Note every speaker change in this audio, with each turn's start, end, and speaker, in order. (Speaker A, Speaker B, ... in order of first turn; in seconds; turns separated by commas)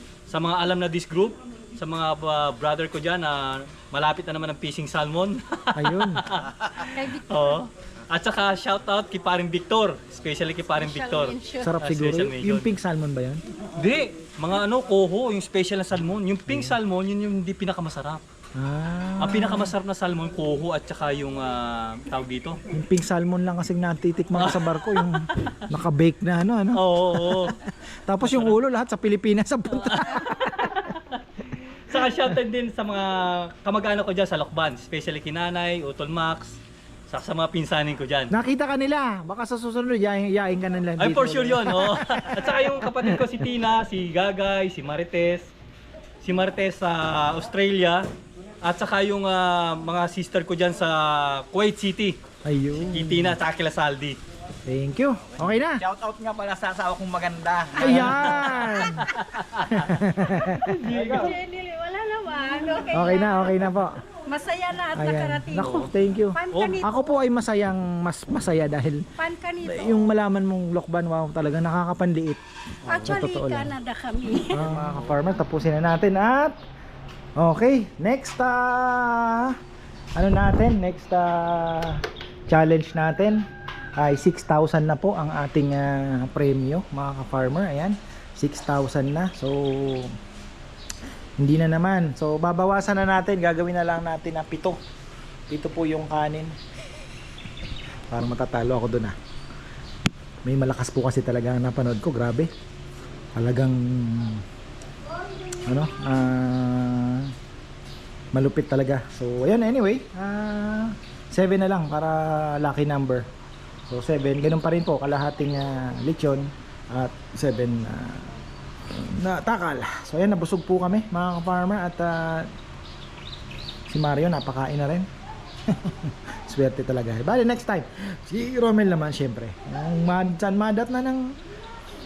Speaker A: 0.3-12.7, Speaker B: 5.8-6.2, Speaker C: 6.9-7.7, Speaker C: 10.8-11.8, Speaker B: 11.6-13.4, Speaker A: 13.8-18.2, Speaker B: 16.5-16.8, Speaker B: 18.6-19.7, Speaker A: 19.2-22.6, Speaker B: 22.7-30.8, Speaker A: 24.4-25.6, Speaker A: 26.7-27.5, Speaker A: 28.2-28.6, Speaker A: 29.7-31.2, Speaker A: 31.9-36.6, Speaker A: 37.1-38.3, Speaker B: 38.3-43.2, Speaker A: 41.0-45.5, Speaker A: 46.2-48.0, Speaker A: 48.6-52.2, Speaker B: 52.5-53.4, Speaker A: 52.9-54.2, Speaker B: 54.7-55.8, Speaker D: 55.8-57.8, Speaker B: 57.8-59.0, Speaker A: 57.8-60.0, Speaker B: 59.7-61.3, Speaker C: 60.3-63.7, Speaker B: 62.9-64.0, Speaker C: 64.3-67.1, Speaker B: 64.9-69.0, Speaker A: 66.5-66.8, Speaker C: 69.2-70.1, Speaker B: 69.6-72.4, Speaker C: 72.9-74.7, Speaker B: 73.0-73.7, Speaker B: 74.5-76.6, Speaker B: 77.4-79.5, Speaker B: 80.2-83.4, Speaker B: 84.0-90.1, Speaker B: 91.4-94.8, Speaker B: 95.5-96.5, Speaker B: 98.1-99.2, Speaker B: 100.5-102.5, Speaker B: 103.3-104.4, Speaker B: 105.7-107.3, Speaker B: 108.3-113.2, Speaker B: 113.9-118.3, Speaker B: 118.9-122.5, Speaker B: 123.9-125.1, Speaker B: 125.7-131.3